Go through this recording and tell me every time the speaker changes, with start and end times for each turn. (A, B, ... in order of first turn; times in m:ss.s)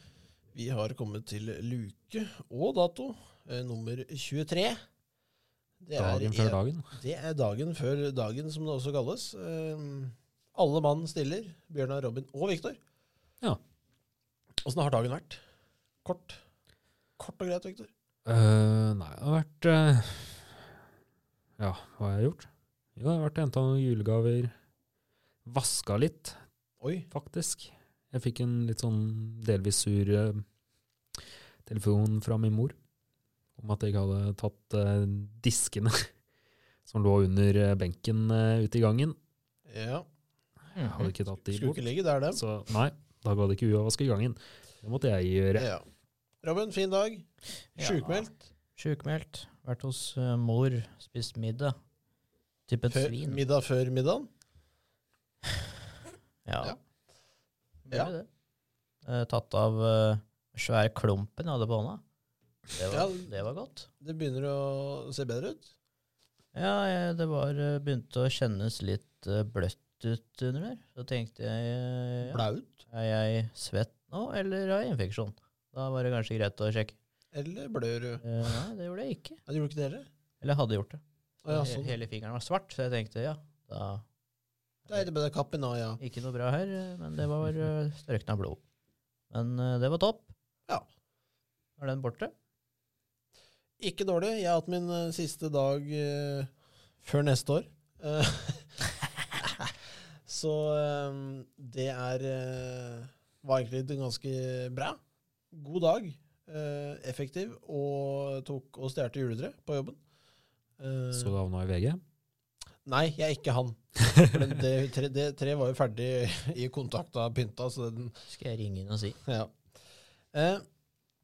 0:00.5-0:04.8 A
0:05.8-0:12.8 A
0:06.0-0:06.8 B
0:14.6-0:15.4 A
0:16.0-0:16.4 A
0:17.2-0:17.9 A
0:18.2-0:20.7 B
0:21.6-0:24.5 B
0:25.4-0:26.4 B
0:26.8-0:27.1 A
0:27.1-0:30.4 B
0:31.6-0:32.8 B
0:33.6-0:36.0 B
0:36.8-0:39.1 B
0:39.7-0:40.0 A
0:40.7-0:41.1 C
0:40.8-0:45.7 B
0:41.4-0:42.4 A
0:45.6-0:45.8 A
0:46.4-0:48.4 A
0:47.8-0:51.7 C
0:52.7-0:53.4 C
0:52.9-0:54.3 A
0:56.4-0:56.7 C
0:57.8-0:58.3 C
0:59.0-1:02.0 C
1:02.7-1:03.9 C
1:02.9-1:03.4 A
1:04.0-1:05.7 A
1:06.5-1:17.0 C
1:12.2-1:12.8 A
1:17.3-1:18.4 A
1:18.2-1:19.4 C
1:19.5-1:20.0 A
1:20.4-1:24.0 C
1:21.4-1:22.0 A
1:24.9-1:26.0 A
1:26.0-1:28.6 C
1:29.3-1:30.3 C
1:31.8-1:32.3 C
1:33.8-1:36.5 A
1:37.0-1:38.8 A
1:39.4-1:39.6 A
1:40.2-1:45.0 A
1:45.5-1:50.0 A
1:50.8-1:51.4 A
1:51.1-1:52.0 B
1:52.8-1:58.2 A
1:58.3-1:59.2 C
1:59.2-1:59.5 A
2:00.3-2:00.6 A